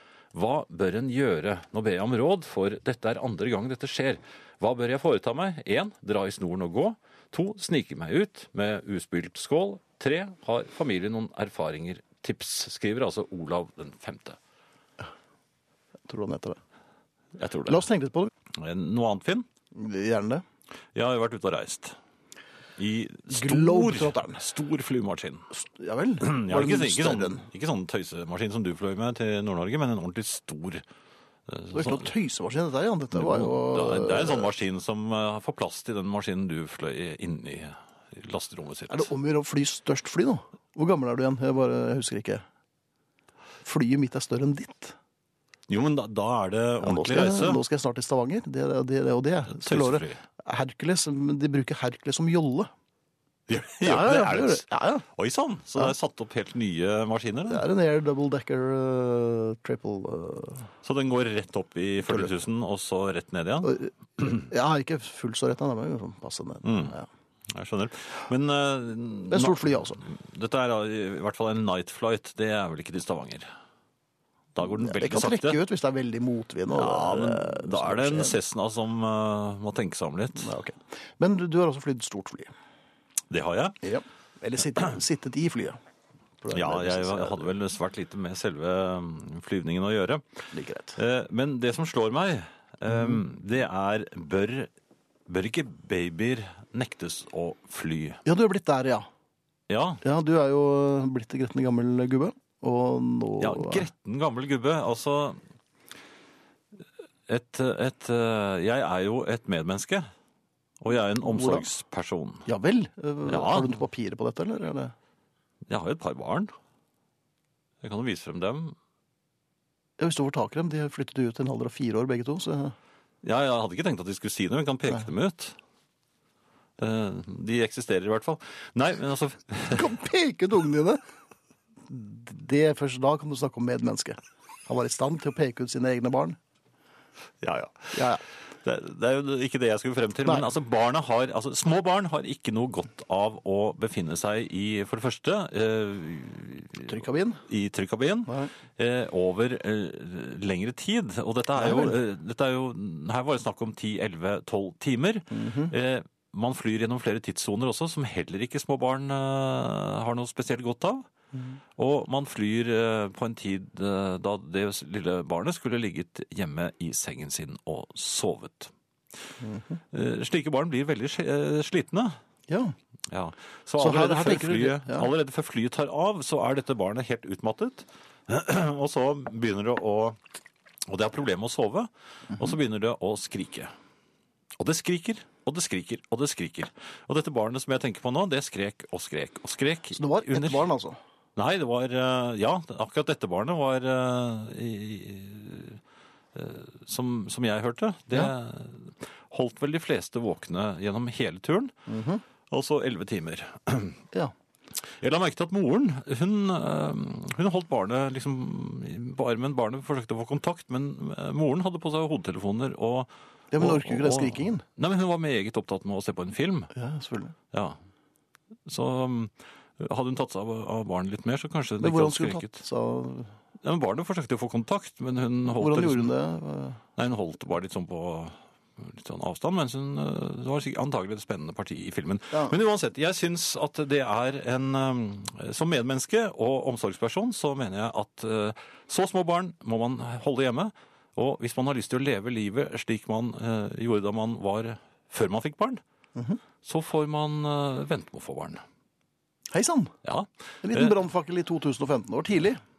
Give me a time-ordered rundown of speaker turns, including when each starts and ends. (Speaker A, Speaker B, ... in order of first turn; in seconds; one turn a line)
Speaker A: 0.3-14.4
Speaker B: 16.1-16.6
Speaker A: 17.4-17.9
Speaker B: 17.7-18.3
Speaker A: 18.5-19.5
Speaker B: 19.7-20.4
Speaker A: 20.9-22.0
Speaker A: 22.8-25.5
Speaker B: 23.3-24.4
Speaker B: 25.5-27.4
Speaker A: 26.2-30.8
Speaker A: 31.5-32.1
Speaker B: 31.7-34.5
Speaker A: 33.1-39.1
Speaker B: 38.9-42.4
Speaker B: 43.6-45.0
Speaker A: 45.7-47.6
Speaker B: 46.8-52.7
Speaker A: 49.5-50.2
Speaker A: 53.5-57.6
Speaker B: 53.8-55.0
Speaker B: 57.5-60.7
Speaker A: 60.8-64.4
Speaker B: 63.6-67.1
Speaker A: 66.6-66.9
Speaker A: 67.5-73.5
Speaker B: 69.3-70.0
Speaker A: 74.5-75.6
Speaker B: 74.6-78.4
Speaker A: 76.7-80.5
Speaker B: 80.4-82.5
Speaker A: 83.3-83.8
Speaker B: 83.8-85.8
Speaker B: 86.4-87.5
Speaker A: 86.5-90.2
Speaker B: 90.5-91.0
Speaker A: 91.0-94.7
Speaker B: 92.9-93.2
Speaker A: 95.3-98.2
Speaker B: 98.2-99.1
Speaker A: 99.7-100.0
Speaker B: 100.0-103.9
Speaker A: 103.4-105.4
Speaker A: 107.3-110.1
Speaker A: 110.8-112.5
Speaker B: 111.2-111.7
Speaker B: 112.5-114.9
Speaker A: 113.3-113.8
Speaker A: 115.7-116.5
Speaker A: 117.8-118.8
Speaker B: 120.0-122.8
Speaker A: 123.2-125.6
Speaker A: 126.8-129.9
Speaker B: 129.7-131.0
Speaker B: 131.9-136.4
Speaker A: 137.4-138.1
Speaker B: 137.9-138.2
Speaker A: 138.6-161.1
Speaker B: 146.8-147.4
Speaker B: 148.3-148.5
Speaker B: 151.6-152.0
Speaker B: 155.3-155.7
Speaker A: 161.8-168.7
Speaker B: 169.4-169.8
Speaker A: 169.9-172.2
Speaker B: 172.5-172.8
Speaker A: 173.1-180.2
Speaker B: 173.8-175.1
Speaker A: 180.9-183.7
Speaker A: 184.6-190.7
Speaker B: 189.9-191.0
Speaker A: 191.4-195.8
Speaker A: 196.3-201.7
Speaker B: 201.9-202.2
Speaker A: 202.5-204.0
Speaker A: 205.0-216.7
Speaker B: 213.5-214.6
Speaker B: 216.7-217.3
Speaker A: 217.5-217.8
Speaker A: 218.7-222.6
Speaker B: 221.8-223.3
Speaker A: 223.6-226.1
Speaker B: 225.6-226.8
Speaker A: 226.9-245.8
Speaker B: 246.2-246.4
Speaker A: 246.6-248.6
Speaker B: 249.5-249.9
Speaker A: 250.0-251.0
Speaker B: 250.6-252.6